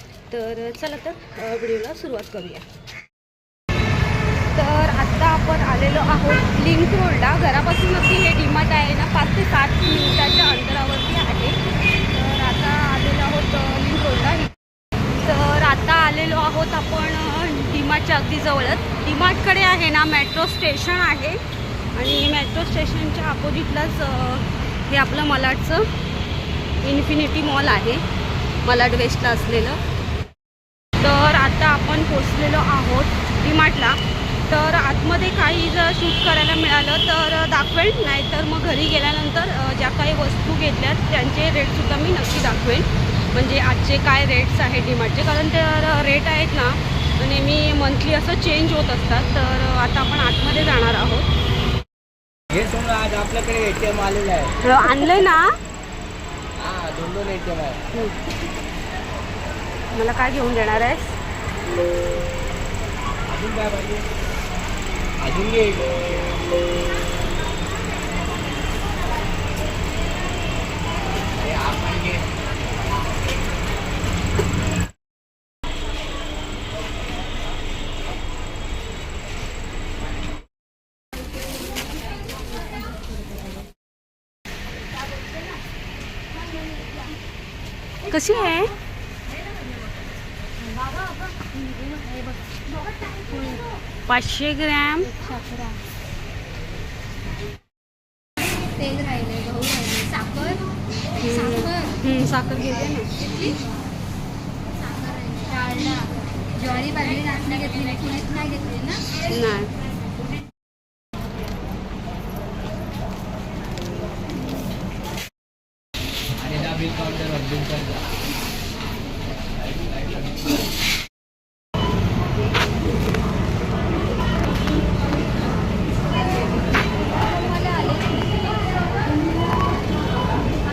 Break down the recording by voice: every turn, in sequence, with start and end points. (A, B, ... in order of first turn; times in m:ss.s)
0:00.3-0:02.7 A
0:04.5-0:14.6 A
0:15.2-0:21.4 A
0:22.0-0:25.9 A
0:26.8-0:28.0 A
0:28.6-0:29.8 A
0:31.0-0:51.3 A
0:52.5-0:54.6 B
0:54.6-0:55.6 A
0:56.6-0:57.8 B
0:57.9-0:58.2 A
0:59.9-1:01.2 A
1:03.3-1:04.0 B
1:05.2-1:05.8 B
1:11.3-1:12.3 B
1:28.1-1:28.7 A
1:31.4-1:32.4 C
1:33.1-1:33.6 C
1:34.1-1:35.1 A
1:35.1-1:35.8 C
1:38.7-1:40.7 C
1:41.2-1:43.6 A
1:41.2-1:41.9 C
1:44.8-1:49.1 C
1:49.2-1:49.7 A
1:56.4-1:58.1 B
2:07.4-2:08.5 C